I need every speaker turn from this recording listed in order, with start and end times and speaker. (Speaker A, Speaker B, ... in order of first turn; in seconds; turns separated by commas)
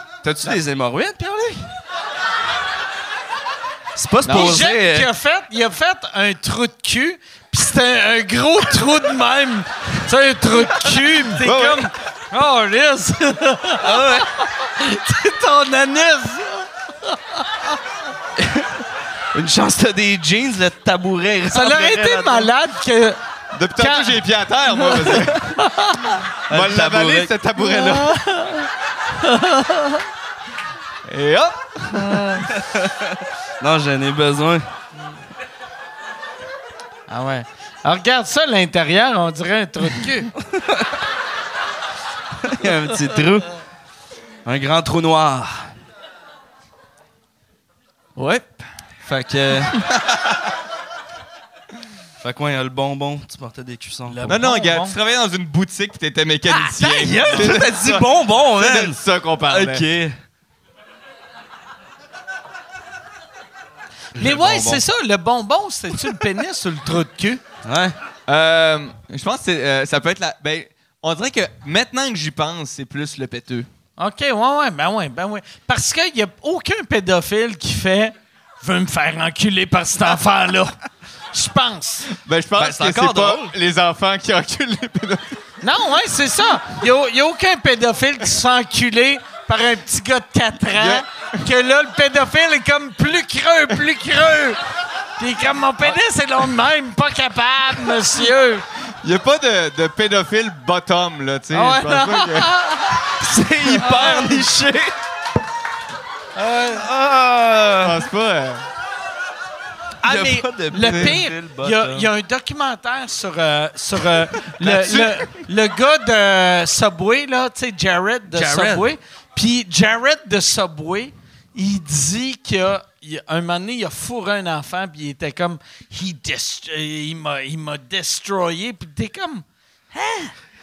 Speaker A: 0.2-0.6, Speaker B: 0.4-1.7, Speaker B: 4.0-5.1, Speaker A: 4.2-4.6, Speaker C: 4.3-17.5, Speaker A: 11.4-11.9, Speaker B: 11.4-11.8, Speaker B: 13.8-14.3, Speaker B: 18.4-18.7, Speaker B: 19.3-22.5, Speaker C: 21.5-23.2, Speaker A: 23.5-25.7, Speaker C: 23.8-24.2, Speaker C: 24.8-26.2, Speaker B: 26.5-27.3, Speaker A: 26.5-28.2, Speaker C: 27.6-30.0, Speaker A: 31.1-32.4, Speaker C: 32.1-32.4, Speaker B: 32.5-34.7, Speaker C: 37.1-40.3, Speaker B: 40.4-41.0, Speaker B: 42.4-43.5, Speaker B: 44.5-45.7, Speaker A: 48.2-48.6, Speaker B: 49.0-49.8, Speaker A: 49.7-50.5, Speaker B: 52.2-54.3, Speaker C: 54.1-55.0, Speaker A: 54.3-59.9, Speaker B: 56.6-60.1, Speaker C: 57.2-57.5, Speaker C: 64.1-67.4, Speaker B: 64.1-64.8, Speaker B: 67.6-68.0, Speaker A: 68.3-73.7, Speaker C: 74.0-80.8, Speaker C: 81.3-82.1, Speaker A: 82.1-85.4, Speaker B: 82.5-83.5, Speaker C: 85.6-94.6, Speaker A: 90.8-91.0, Speaker C: 95.2-98.6, Speaker A: 99.0-102.6, Speaker C: 101.5-103.1, Speaker B: 102.9-105.0, Speaker A: 103.6-104.2, Speaker C: 103.7-104.4, Speaker C: 106.4-106.8, Speaker B: 106.6-108.1, Speaker A: 107.8-108.7, Speaker C: 110.0-130.3, Speaker B: 110.0-112.1, Speaker A: 110.8-111.1, Speaker A: 114.7-115.0, Speaker B: 118.3-118.9